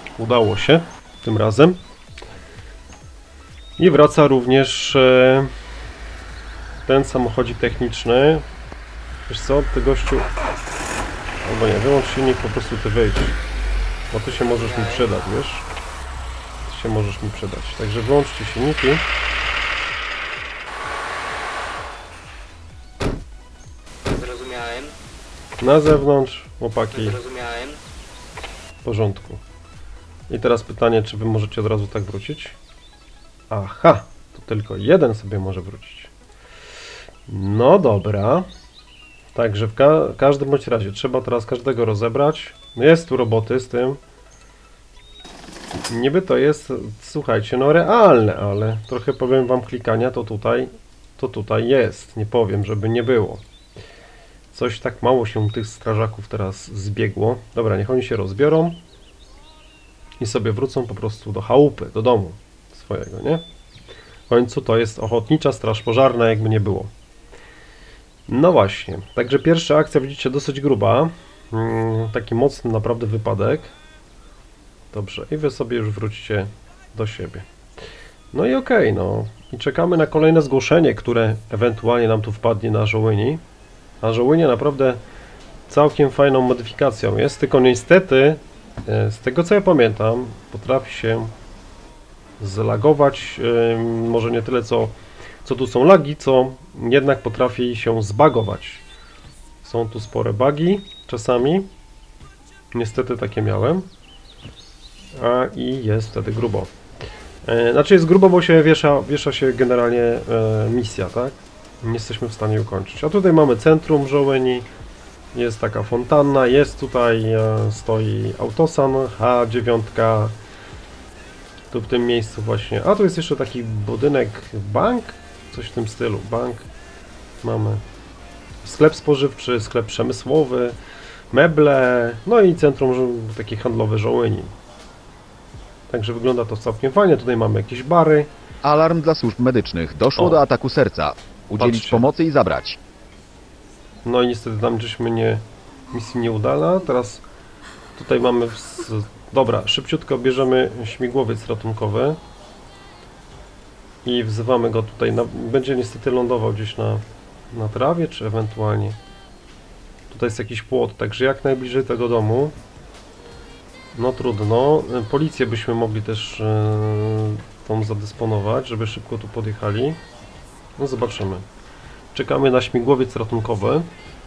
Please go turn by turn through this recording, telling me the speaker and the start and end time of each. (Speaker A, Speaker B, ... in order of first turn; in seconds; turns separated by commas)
Speaker A: 0.2-1.8, Speaker A: 3.8-5.5, Speaker A: 6.9-8.4, Speaker A: 9.3-10.3, Speaker A: 11.4-13.4, Speaker A: 14.1-15.7, Speaker B: 14.3-15.2, Speaker A: 16.6-19.0, Speaker B: 24.1-24.9, Speaker A: 25.6-27.2, Speaker B: 26.9-27.8, Speaker A: 28.8-29.4, Speaker A: 30.3-32.6, Speaker A: 33.5-36.1, Speaker A: 37.3-38.5, Speaker A: 39.3-44.0, Speaker A: 45.7-53.4, Speaker A: 54.5-58.8, Speaker A: 60.2-63.4, Speaker A: 64.3-66.9, Speaker A: 68.3-73.7, Speaker A: 74.9-77.5, Speaker A: 78.3-83.4, Speaker A: 84.0-85.0, Speaker A: 85.7-91.3, Speaker A: 92.4-98.8, Speaker A: 99.6-101.7, Speaker A: 102.7-103.9, Speaker A: 105.2-106.7, Speaker A: 107.5-114.7, Speaker A: 115.3-120.3, Speaker A: 121.7-126.7, Speaker A: 127.4-127.8, Speaker A: 128.6-130.8, Speaker A: 131.3-134.5, Speaker A: 135.9-138.3, Speaker C: 138.6-142.8, Speaker A: 140.2-140.5, Speaker A: 141.6-142.1, Speaker A: 144.1-147.2, Speaker A: 148.0-152.2, Speaker A: 154.1-159.0, Speaker A: 160.1-162.5, Speaker A: 163.9-170.0, Speaker A: 170.8-171.5, Speaker A: 172.1-173.9